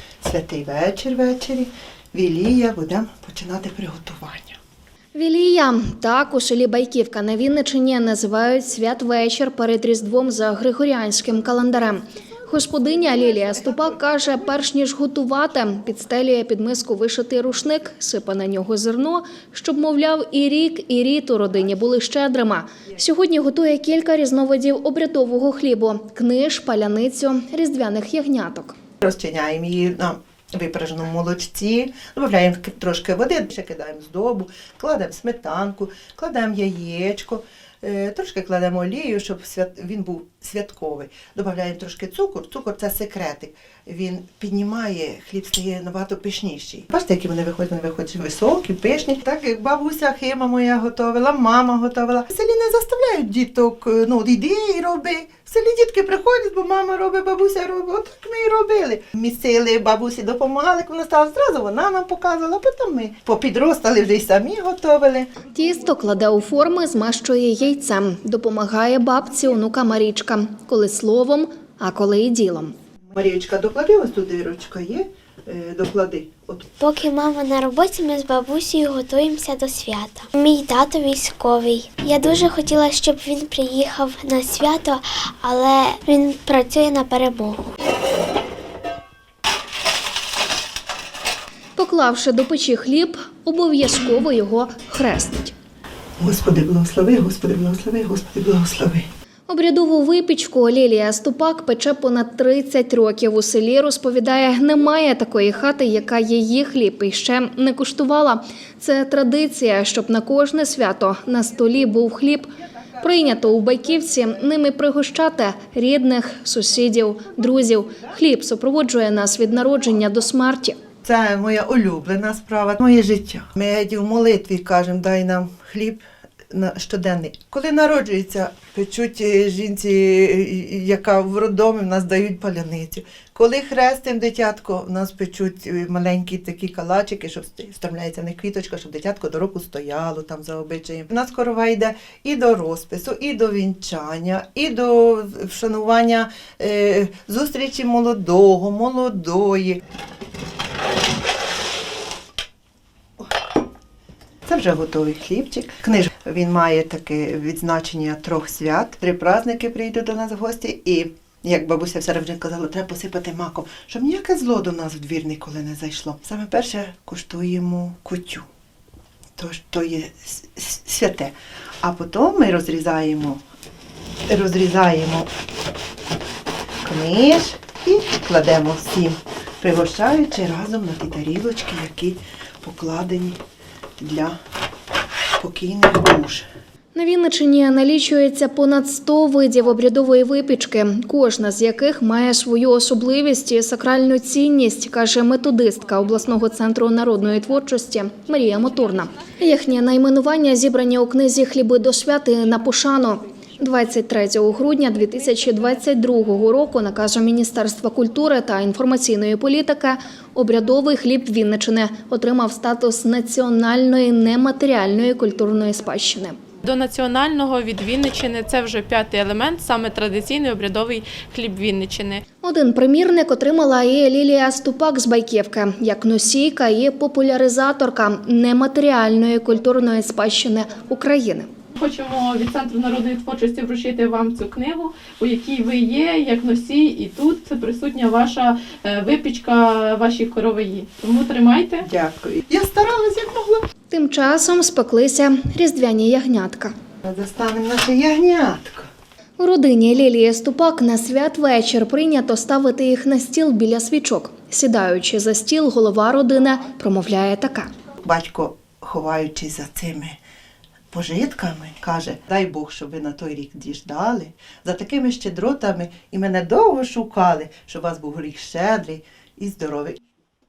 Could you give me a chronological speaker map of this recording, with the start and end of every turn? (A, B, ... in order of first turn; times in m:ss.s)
0:00.2-0:04.6 A
0:05.1-0:28.7 B
0:29.0-1:05.3 A
1:05.5-1:12.7 B
1:13.1-1:16.7 A
1:16.8-1:27.7 C
1:31.8-1:35.5 B
1:36.2-1:39.1 A
1:39.5-2:00.8 B
2:01.0-2:29.8 A
2:34.4-2:48.5 A
2:49.4-2:53.4 A
2:54.3-2:55.3 A
2:56.8-3:03.4 A
3:04.0-3:04.4 A
3:05.4-3:06.4 A
3:06.9-3:36.4 B
3:36.6-3:42.2 D
3:42.4-3:51.5 B
3:51.8-4:01.8 D
4:01.8-4:03.7 A
4:03.9-4:06.7 B
4:07.0-4:08.9 A
4:09.4-4:17.7 B
4:18.0-4:20.2 A
4:20.9-4:30.0 A